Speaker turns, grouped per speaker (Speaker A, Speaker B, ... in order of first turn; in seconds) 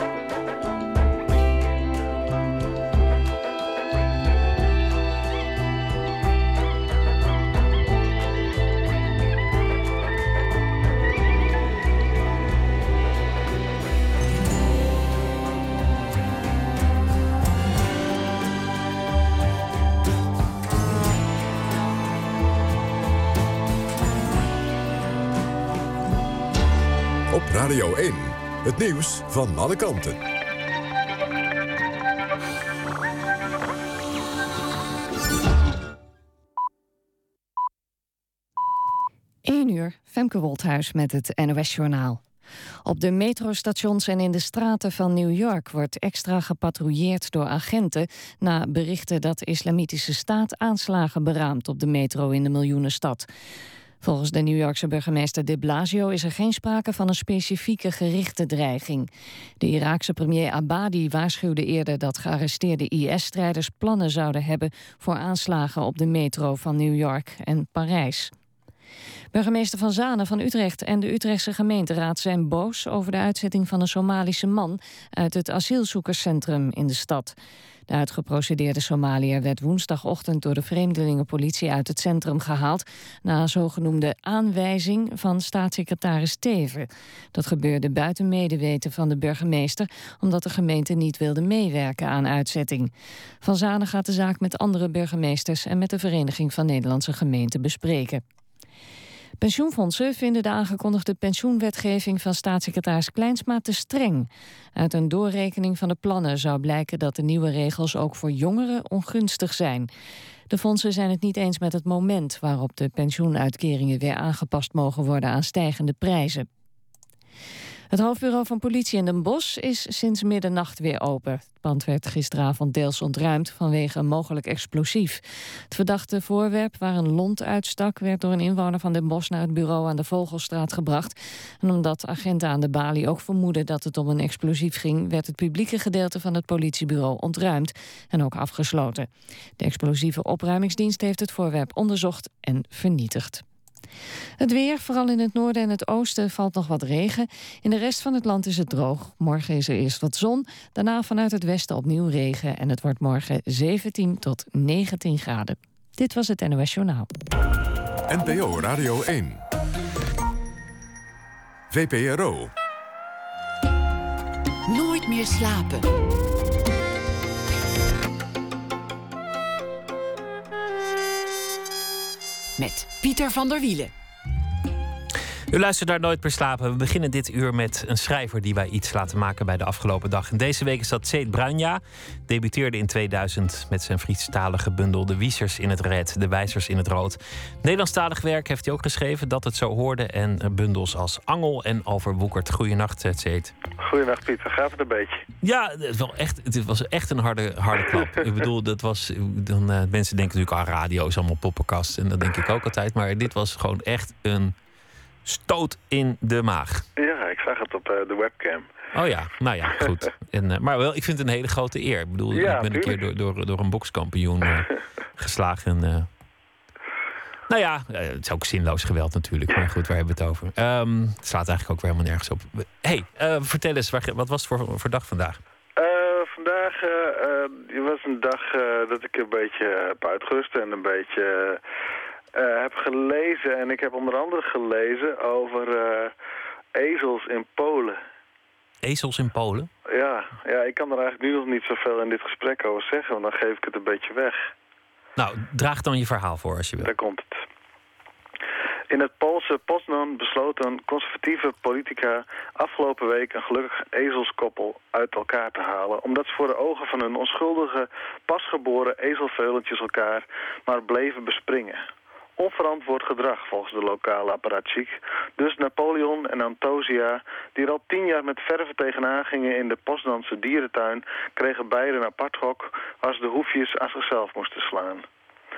Speaker A: 27.3-30.2, 158.1-159.4, 161.7-162.5
Speaker B: 39.4-42.2, 42.8-53.2, 54.0-59.1, 59.6-68.3, 69.3-77.3, 77.9-92.9, 93.4-98.2, 99.4-109.9, 110.5-116.5, 117.9-143.4, 144.4-157.1
Speaker C: 164.7-165.8, 172.6-173.9
Speaker D: 175.5-193.5, 195.4-204.5, 205.2-206.8, 208.9-216.1, 217.5-225.4, 238.8-239.7, 245.2-246.9
Speaker E: 193.8-195.2, 207.0-208.7, 212.3-213.0, 225.8-231.6, 232.4-236.1, 236.8-238.0, 239.9-244.4, 246.8-247.3, 248.9-261.8, 262.4-275.0